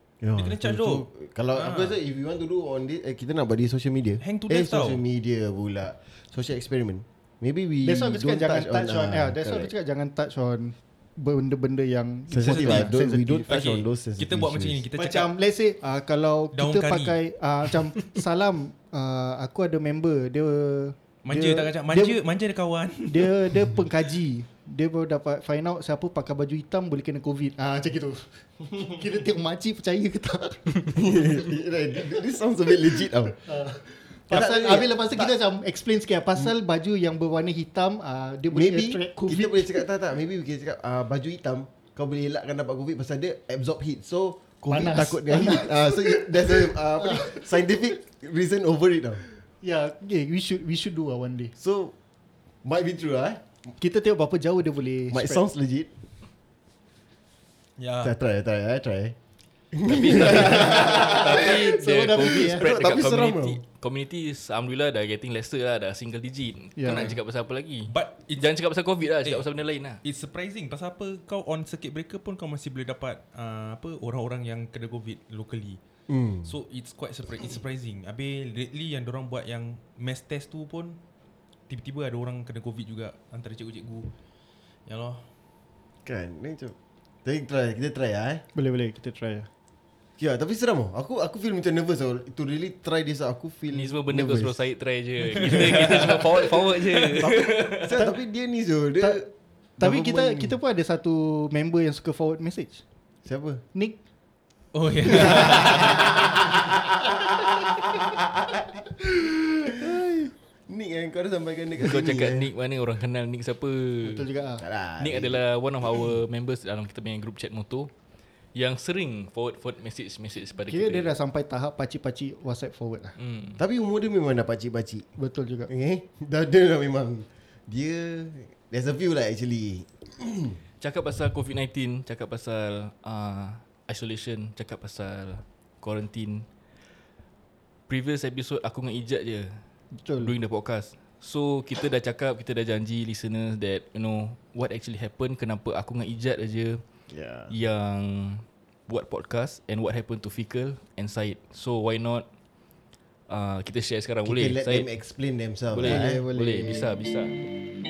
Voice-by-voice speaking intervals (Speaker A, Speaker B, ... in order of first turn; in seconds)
Speaker A: 0.2-9.7, 12.3-14.8, 30.9-33.4, 34.3-35.3, 38.5-49.2, 51.6-51.9, 52.6-53.4, 55.1-55.9, 58.0-59.2, 59.7-61.5, 62.2-63.6, 76.1-76.5, 86.0-88.4, 90.2-94.7, 95.4-96.1, 97.0-99.3, 99.8-100.6, 103.2-103.6, 105.1-108.8, 109.7-112.5, 114.6-115.4, 123.6-125.1, 125.7-130.6, 147.1-147.5, 154.2-156.9
Speaker B: 0.4-2.0, 4.2-5.0, 12.4-12.9, 13.5-15.3, 16.5-17.2, 21.2-23.9, 57.8-58.1, 66.9-67.2, 67.9-68.5, 70.0-75.8, 76.4-81.0, 81.7-84.1, 84.9-85.2, 95.4-96.3, 104.7-106.3
Speaker C: 7.8-13.7, 15.0-22.2, 23.1-31.1, 33.5-39.8, 44.7-47.5, 49.6-51.5, 53.8-55.4, 60.6-62.7, 66.8-67.1, 88.5-89.5, 99.0-99.3, 99.8-102.8, 109.2-109.8, 114.0-114.6, 120.7-123.2, 125.2-125.7, 139.9-140.3
Speaker D: 59.9-70.0, 93.7-98.0, 111.8-114.3, 115.0-117.9, 118.5-121.1, 123.2-123.6, 130.8-136.5, 137.9-139.6, 140.2-146.8, 147.5-152.3, 153.3-154.9, 155.7-157.4